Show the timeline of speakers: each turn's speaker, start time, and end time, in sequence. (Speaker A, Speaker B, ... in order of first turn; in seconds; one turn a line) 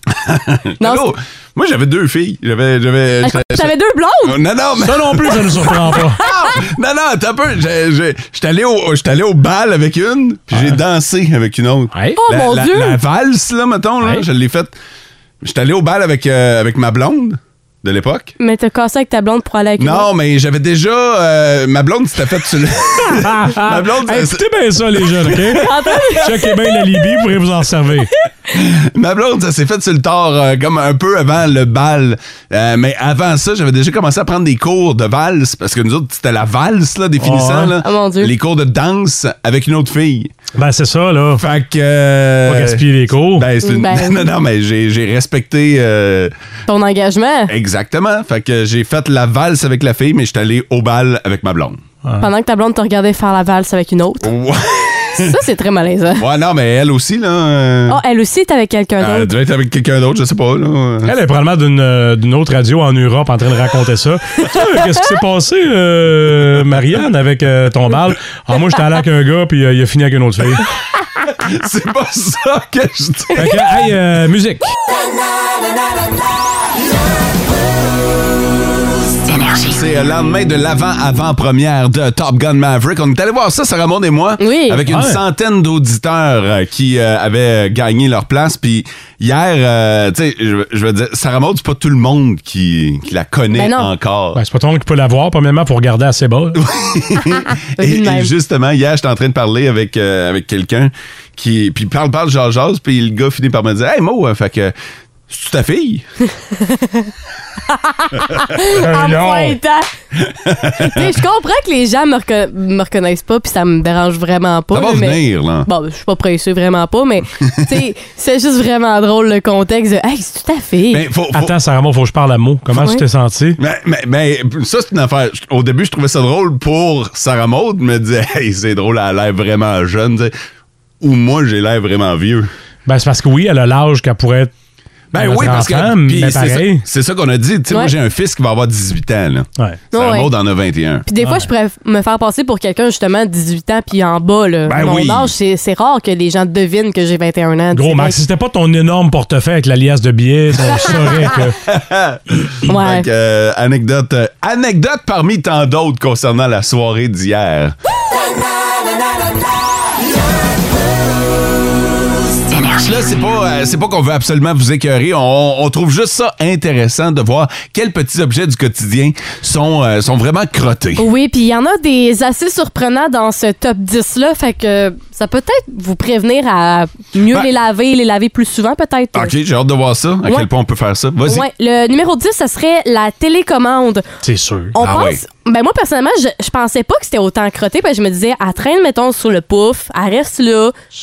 Speaker A: 0.1-14.7
Speaker B: 0.8-1.1
Speaker B: 3.2-4.4
Speaker C: 4.8-6.2
Speaker B: 6.2-6.6
Speaker C: 10.5-10.8
Speaker C: 11.9-12.2
Speaker B: 12.2-13.0
Speaker A: 15.4-18.3
Speaker B: 18.4-20.1
Speaker A: 19.8-26.2
Speaker C: 23.1-28.1
Speaker B: 25.6-26.8
Speaker A: 28.5-40.3
Speaker C: 37.2-37.7
Speaker B: 37.8-38.3
Speaker C: 40.6-41.4
Speaker A: 41.4-46.3
Speaker C: 42.5-43.5
Speaker B: 43.6-44.3
Speaker B: 46.7-47.5
Speaker A: 47.5-51.8
Speaker B: 52.2-54.3
Speaker A: 54.2-55.4
Speaker B: 55.2-56.2
Speaker A: 56.1-58.0
Speaker B: 57.9-59.3
Speaker A: 59.0-61.1
Speaker C: 61.0-70.7
Speaker A: 71.4-73.5
Speaker C: 73.3-74.7
Speaker A: 79.5-94.4
Speaker B: 84.4-84.8
Speaker C: 84.9-85.2
Speaker B: 93.5-93.9
Speaker C: 94.3-96.6
Speaker A: 96.5-104.7
Speaker B: 97.8-98.3
Speaker A: 105.3-106.0
Speaker B: 106.6-107.1
Speaker B: 107.7-109.9
Speaker C: 108.9-109.5
Speaker A: 110.2-111.2
Speaker B: 110.8-121.0
Speaker A: 114.7-115.7
Speaker A: 117.4-117.8
Speaker A: 120.9-121.5
Speaker C: 121.3-123.6
Speaker B: 122.8-123.0
Speaker A: 123.6-130.3
Speaker A: 131.0-132.5
Speaker C: 132.8-134.5
Speaker A: 135.1-141.0
Speaker C: 135.1-136.8
Speaker B: 139.9-140.3
Speaker B: 141.1-148.2
Speaker C: 141.2-141.5
Speaker A: 144.7-145.3
Speaker C: 147.7-151.6
Speaker A: 151.6-157.7
Speaker B: 152.7-153.1
Speaker A: 162.6-171.1
Speaker B: 171.0-179.3
Speaker A: 179.1-181.4
Speaker B: 181.2-184.0
Speaker C: 184.2-184.7
Speaker B: 184.7-190.7
Speaker A: 184.8-185.2